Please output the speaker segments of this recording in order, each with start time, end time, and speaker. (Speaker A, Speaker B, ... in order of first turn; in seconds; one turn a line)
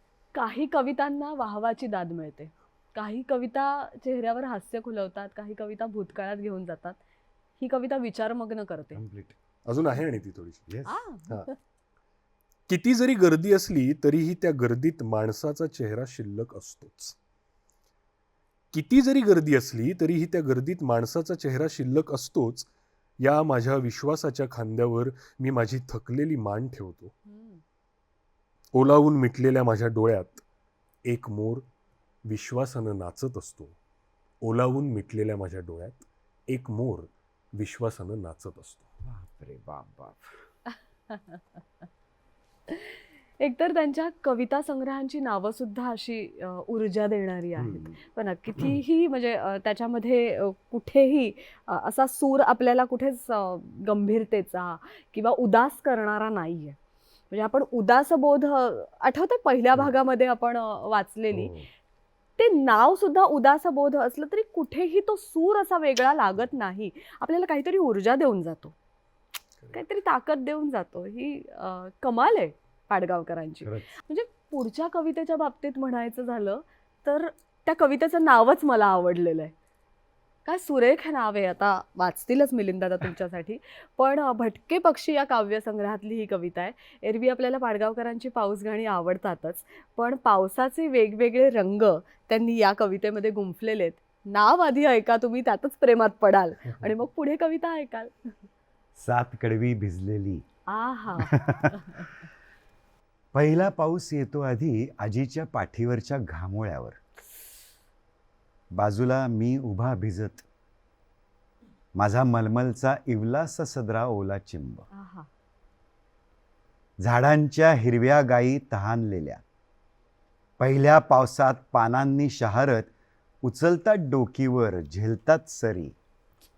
Speaker A: 0.3-7.0
Speaker A: 7.6-9.0
Speaker B: 8.9-9.3
Speaker C: 9.7-10.7
Speaker B: 10.7-11.0
Speaker A: 10.8-11.6
Speaker C: 12.7-17.1
Speaker C: 18.7-22.7
Speaker C: 23.2-27.1
Speaker A: 27.3-27.6
Speaker C: 28.7-30.4
Speaker C: 31.0-31.6
Speaker C: 32.2-33.7
Speaker C: 34.4-38.9
Speaker B: 39.0-40.3
Speaker A: 41.1-41.4
Speaker A: 42.7-56.8
Speaker B: 47.6-48.0
Speaker A: 57.3-61.5
Speaker B: 61.3-61.6
Speaker A: 62.4-68.7
Speaker A: 69.7-79.5
Speaker B: 73.6-73.9
Speaker A: 80.5-98.3
Speaker B: 99.0-100.4
Speaker A: 100.7-102.1
Speaker B: 101.2-101.7
Speaker B: 103.3-107.0
Speaker B: 108.7-110.4
Speaker B: 111.9-114.8
Speaker A: 114.9-115.3
Speaker B: 117.0-119.4
Speaker B: 120.6-122.9
Speaker B: 123.4-125.9